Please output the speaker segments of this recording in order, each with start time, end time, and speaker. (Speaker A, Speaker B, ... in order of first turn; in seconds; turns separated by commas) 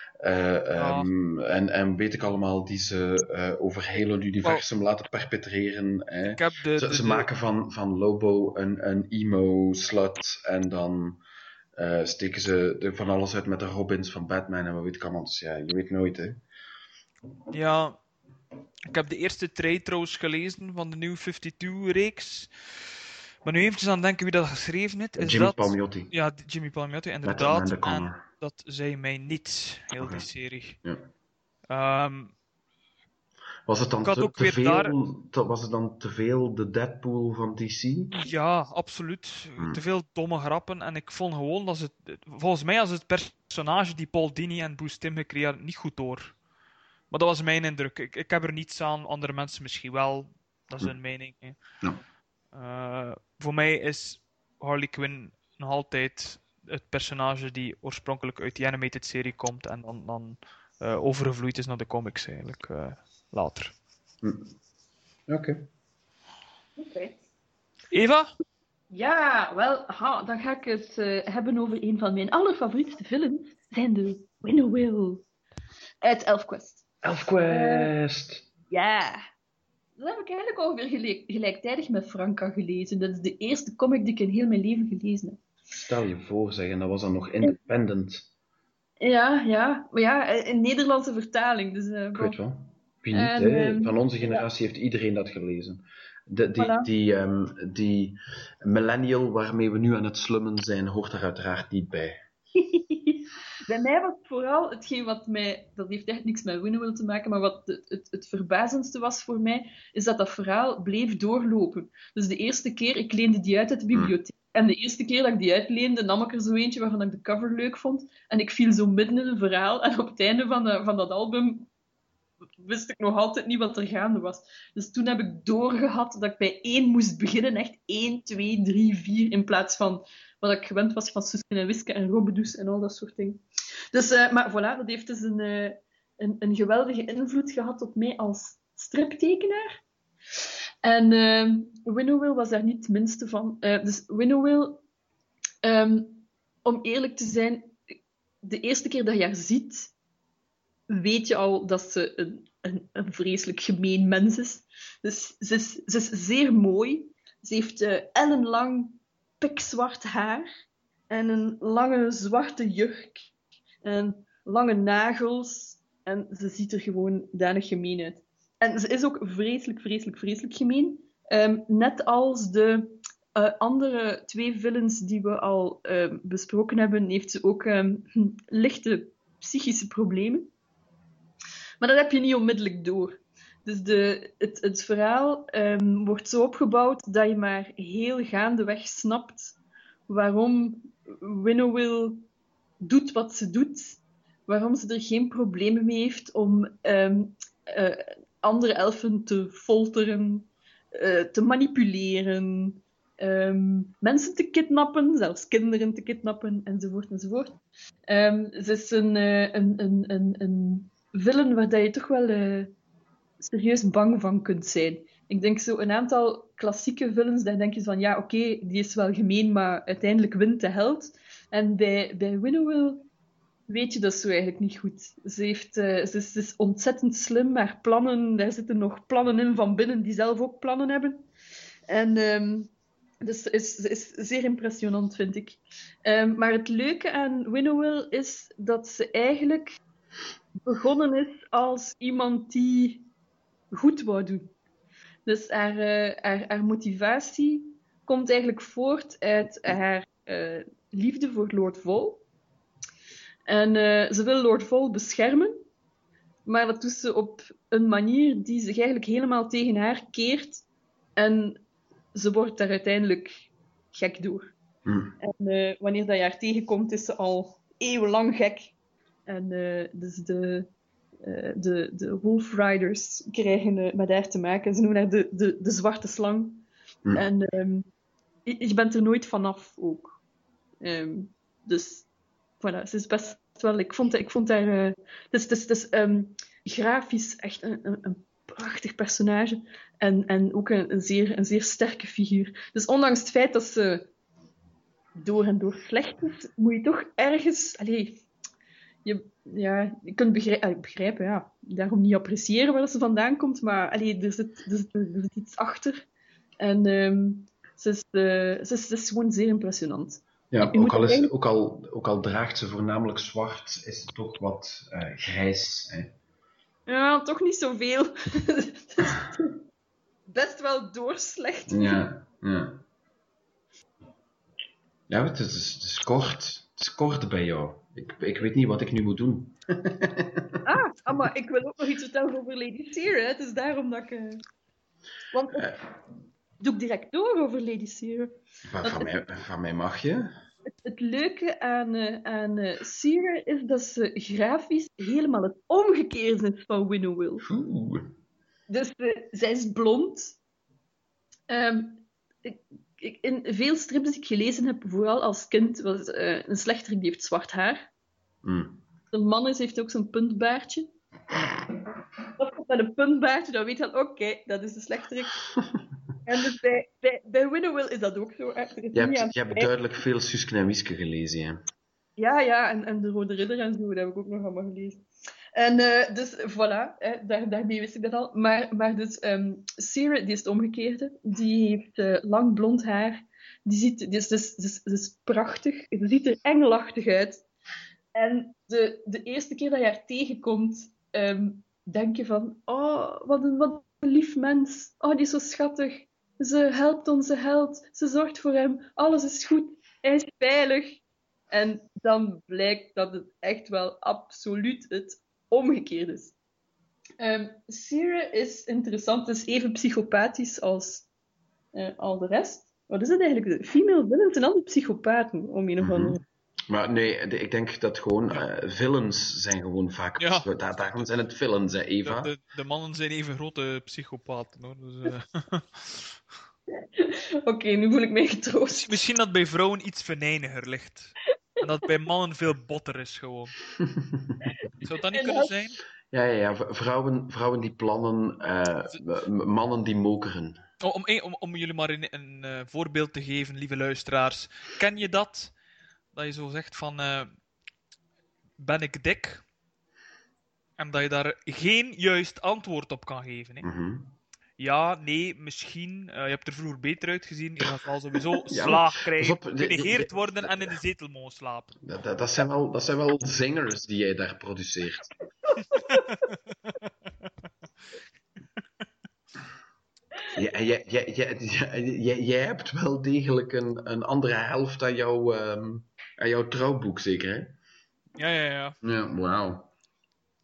Speaker A: 0.2-11.2, Speaker B: 0.8-1.1, Speaker B: 6.3-7.3, Speaker A: 11.8-16.4, Speaker B: 17.5-18.0, Speaker B: 18.9-22.9, Speaker B: 23.4-30.8, Speaker A: 25.2-26.1, Speaker A: 27.2-28.2, Speaker A: 30.0-30.3, Speaker B: 31.7-32.3, Speaker A: 33.7-38.2, Speaker B: 34.0-34.9, Speaker B: 38.1-46.4, Speaker B: 47.1-51.6, Speaker B: 52.5-63.7, Speaker A: 64.2-64.5, Speaker A: 65.3-65.6, Speaker C: 66.8-67.2, Speaker B: 67.9-68.3, Speaker C: 68.9-75.2, Speaker C: 76.0-76.8, Speaker A: 77.0-78.5, Speaker C: 77.5-77.9, Speaker C: 78.7-79.2, Speaker C: 80.0-85.4, Speaker A: 85.8-88.3, Speaker C: 89.0-92.4, Speaker A: 92.2-102.2, Speaker C: 93.1-94.5, Speaker C: 96.6-96.9, Speaker C: 102.6-121.7, Speaker C: 122.6-139.8, Speaker C: 140.8-144.8, Speaker C: 145.6-147.8, Speaker C: 148.4-149.9, Speaker C: 150.9-160.5, Speaker C: 161.1-163.3, Speaker C: 163.8-180.5, Speaker C: 181.8-189.6, Speaker C: 190.1-192.3, Speaker C: 192.8-212.7, Speaker C: 213.4-223.1, Speaker C: 223.7-231.3, Speaker C: 231.9-232.7, Speaker C: 233.2-239.8, Speaker C: 240.7-243.1, Speaker C: 243.7-244.5, Speaker C: 245.3-252.2, Speaker C: 253.5-255.6, Speaker C: 256.5-260.6, Speaker C: 261.2-261.6, Speaker C: 262.1-264.5, Speaker A: 264.9-265.2, Speaker C: 265.2-268.7, Speaker C: 269.3-270.7, Speaker C: 271.2-277.9, Speaker C: 278.5-280.1, Speaker C: 280.8-282.1, Speaker C: 282.6-294.1, Speaker C: 295.2-298.2, Speaker C: 299.1-306.0, Speaker C: 306.6-311.3, Speaker A: 310.5-316.1, Speaker C: 316.9-319.6, Speaker C: 320.3-322.0, Speaker A: 321.7-322.8, Speaker A: 325.1-330.6, Speaker C: 330.6-334.4, Speaker C: 335.3-335.7, Speaker A: 335.6-335.8, Speaker C: 336.6-339.1, Speaker A: 338.7-340.3, Speaker C: 340.8-347.4, Speaker A: 347.4-348.1, Speaker C: 348.7-350.4, Speaker C: 351.5-357.9, Speaker A: 358.4-358.8, Speaker C: 359.1-360.9, Speaker C: 362.4-365.4, Speaker A: 365.5-365.8, Speaker C: 366.3-369.7, Speaker A: 368.9-371.6, Speaker C: 372.2-375.0, Speaker C: 375.6-387.4, Speaker C: 388.1-406.3, Speaker C: 407.2-411.1, Speaker C: 411.7-416.2, Speaker A: 415.8-416.2, Speaker A: 416.7-422.3, Speaker B: 420.2-421.1, Speaker B: 422.1-426.2, Speaker C: 426.8-429.0, Speaker B: 428.8-433.5, Speaker A: 433.8-434.4, Speaker B: 434.8-435.8, Speaker C: 435.1-435.5, Speaker A: 436.1-440.6, Speaker B: 440.8-445.5, Speaker B: 446.1-447.3, Speaker B: 448.6-449.4, Speaker B: 450.8-453.7, Speaker A: 453.6-454.2, Speaker B: 454.6-461.8, Speaker A: 458.4-460.8, Speaker A: 461.8-465.1, Speaker B: 465.7-466.8, Speaker A: 470.3-477.6, Speaker B: 478.2-478.8, Speaker A: 478.8-479.7